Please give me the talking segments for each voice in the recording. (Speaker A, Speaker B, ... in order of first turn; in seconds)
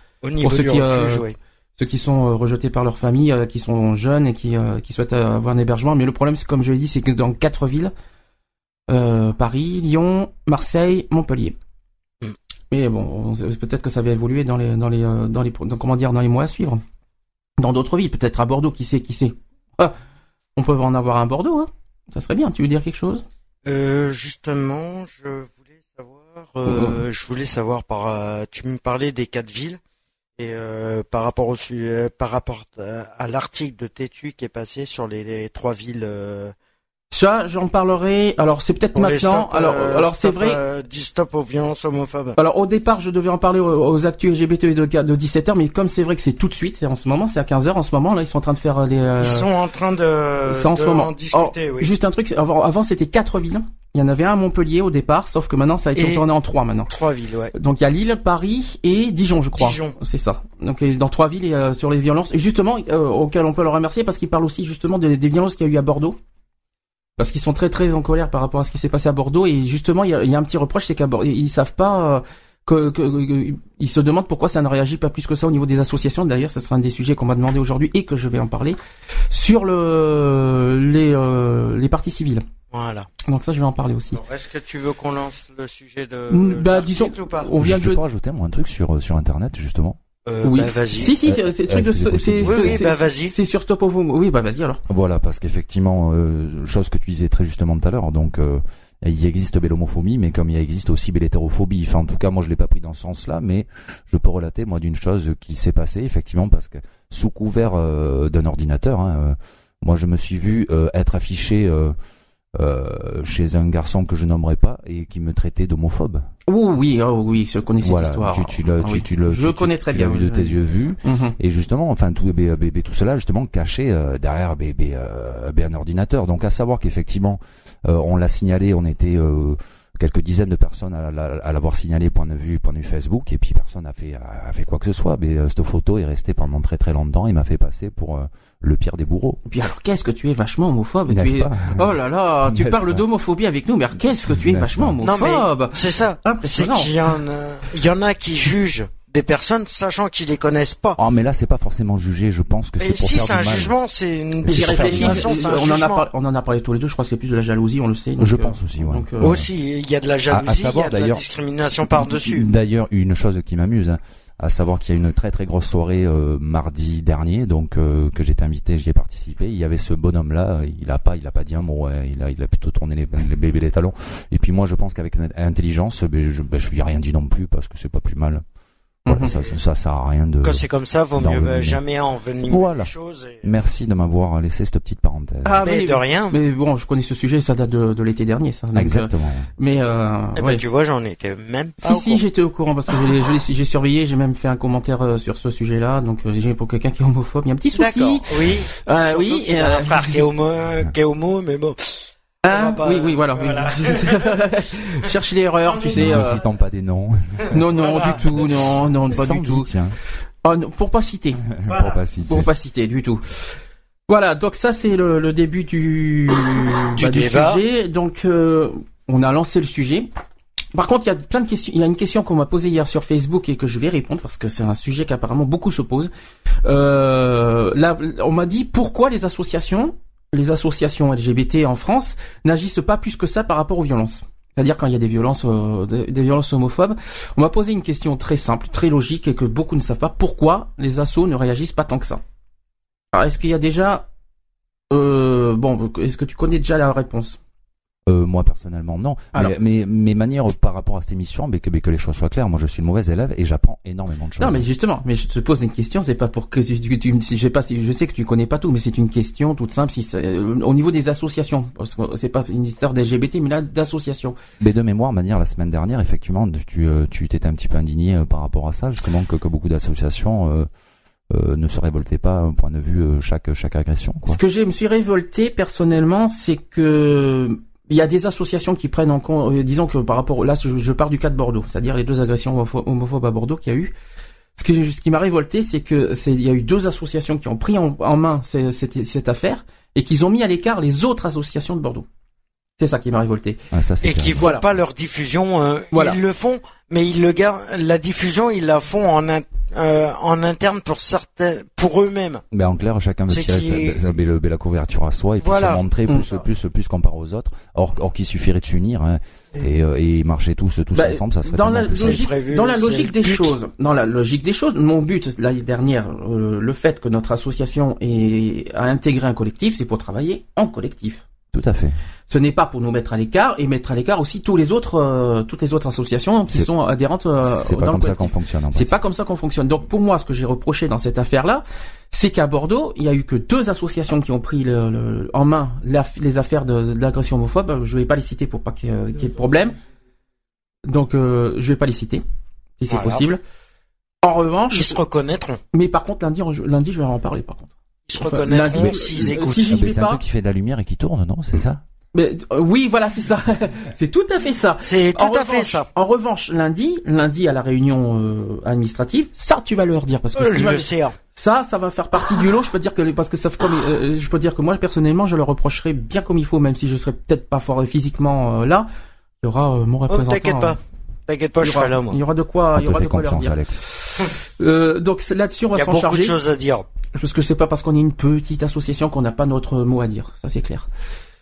Speaker A: 0.2-1.4, 23.7-29.8, 30.4-36.5, 39.0-42.4, 49.2-51.9, 56.0-56.3, 56.9-57.5, 59.5-60.0, 82.7-83.1, 84.1-87.6, 90.2-91.2, 92.4-93.3, 145.0-151.0, 152.8-156.1, 159.2-162.5, 180.4-183.4, 185.7-186.4, 190.4-192.2, 197.7-204.7, 205.7-206.4, 207.7-208.4, 211.7-212.0, 217.0-217.6, 294.0-302.4, 303.3-304.0, 305.4-305.8, 312.0-313.6, 342.9-343.2, 344.7-345.6, 348.1-349.8, 354.8-355.9, 360.4-361.2, 370.1-372.2, 375.8-376.9
Speaker B: 0.4-1.2, 1.8-7.9, 8.9-11.6, 12.7-16.8, 17.6-20.0, 20.6-23.2, 26.6-27.0, 37.1-40.6, 42.4-49.5, 50.5-56.9, 57.5-66.2, 67.2-78.8, 79.3-82.5, 83.3-84.2, 86.3-88.0, 90.4-94.8, 116.5-121.4, 139.5-146.9, 154.5-159.4, 179.1-179.3, 185.4-190.6, 191.8-200.2, 202.4-206.4, 207.5-209.7, 210.4-211.4, 212.3-220.1, 220.7-226.1, 226.6-242.2, 243.1-244.1, 244.9-247.4, 254.4-264.4, 274.3-283.9, 284.6-292.1, 292.8-293.6, 294.4-294.6, 295.9-296.2, 310.9-321.2, 322.3-339.8, 340.9-342.2, 342.8-343.4, 344.2-345.0, 345.7-350.2, 352.1-368.9, 369.4-370.8, 371.6-376.4, 377.1-380.9
Speaker C: 87.6-90.0, 91.2-92.9, 94.9-112.0, 112.5-116.3, 117.8-139.4, 141.1-143.0, 144.2-145.0, 151.0-153.8, 154.4-155.3, 158.2-159.5, 160.3-161.2, 161.9-178.4, 179.1-181.8, 182.5-185.7, 188.7-189.5, 205.9-210.0, 211.5-212.5, 248.1-254.7, 264.6-270.7, 271.3-274.4, 293.7-294.5, 302.5-312.2, 321.5-322.0, 327.4-329.0, 348.8-351.8, 372.8-373.8